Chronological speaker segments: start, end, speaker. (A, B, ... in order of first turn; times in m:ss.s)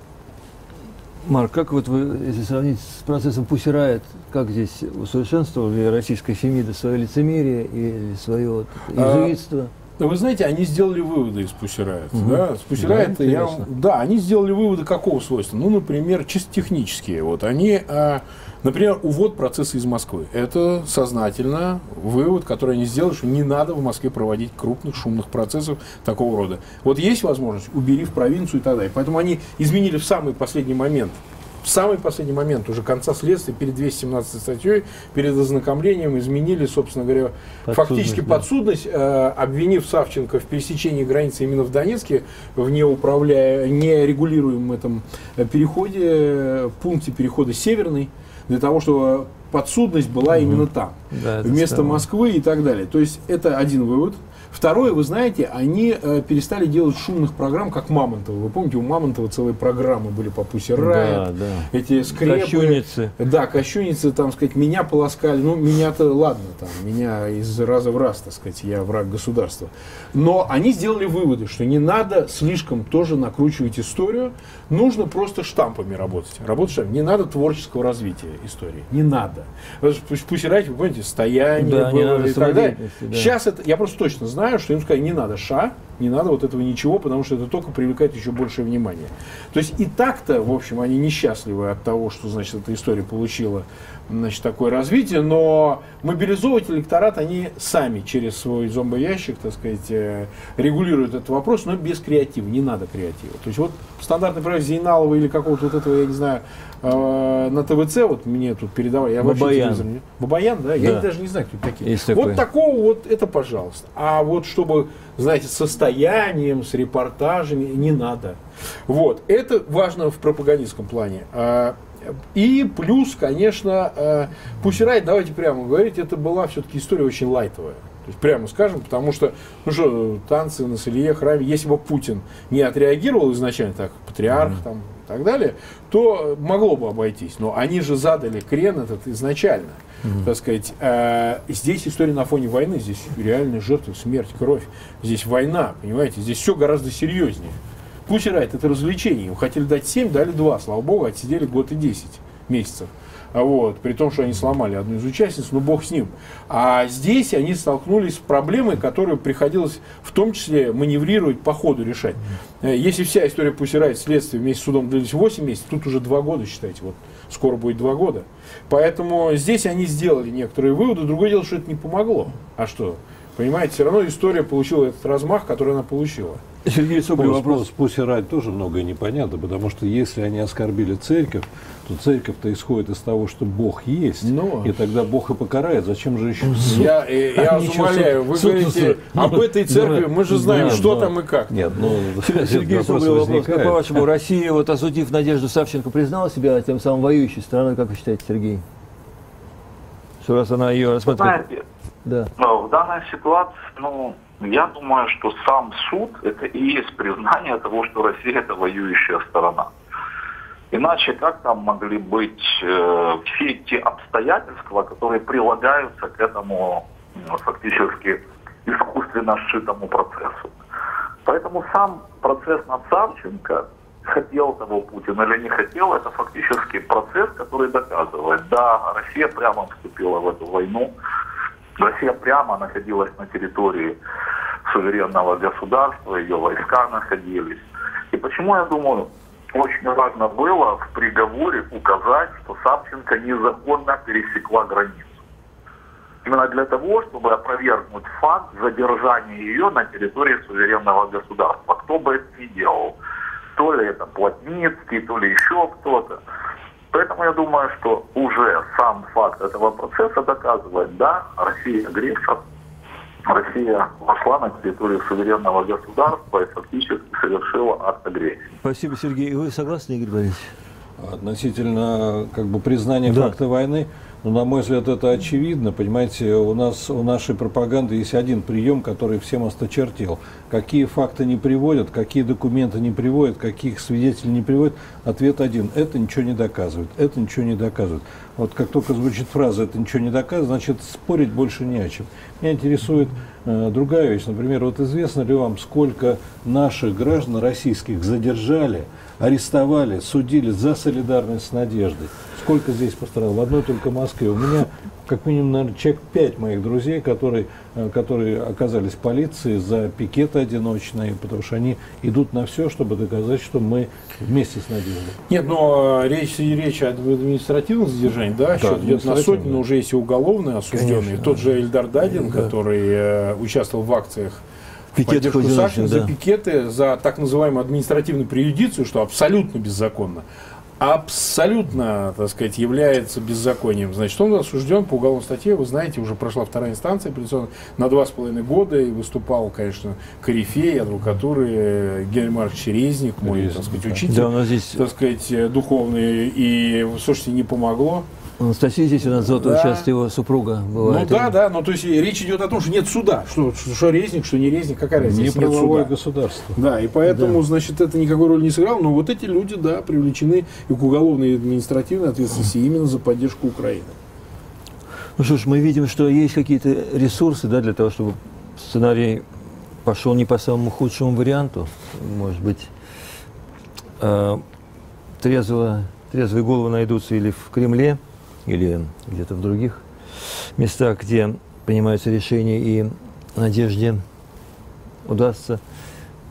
0:01.2-0:09.7 A
0:08.9-0:09.3 B
0:10.0-2:56.4 B
0:12.1-0:13.7 A
0:37.7-0:38.4 A
0:50.4-0:52.0 A
1:00.8-1:03.1 A
1:21.6-1:23.3 A
1:49.2-1:49.9 A
1:50.8-1:51.1 A
1:51.8-1:52.4 A
2:56.6-2:57.6 A
2:57.2-3:09.4 C
3:04.2-3:04.7 B
3:06.5-3:06.8 A
3:06.6-3:11.6 B
3:09.7-3:11.1 A
3:10.4-3:14.0 C
3:12.2-3:18.6 A
3:20.2-3:21.4 A
3:21.0-3:21.6 D
3:22.0-3:22.3 A
3:22.4-3:29.7 D
3:30.7-3:40.5 D
3:41.2-3:50.9 D
3:51.8-3:54.0 D
3:54.6-4:05.2 D
4:06.2-4:12.9 D
4:13.6-4:16.2 D
4:16.9-4:22.4 D
4:23.2-4:28.4 D
4:28.6-4:30.5 A
4:31.0-5:15.2 C
4:33.0-4:33.3 A
5:15.3-5:30.2 B
5:18.6-5:19.6 C
5:20.7-5:21.5 A
5:22.1-5:22.5 A
5:24.9-5:26.1 A
5:30.8-5:48.1 B
5:43.2-5:44.0 C
5:44.0-5:44.8 A
5:48.4-5:51.4 A
5:49.2-5:49.9 B
5:50.8-5:55.9 B
5:55.0-5:56.6 C
5:56.5-6:03.9 B
5:57.0-5:57.4 A
6:05.2-6:09.3 A
6:09.8-6:12.7 A
6:14.0-6:14.4 A
6:15.2-6:24.0 A
6:25.0-6:25.6 A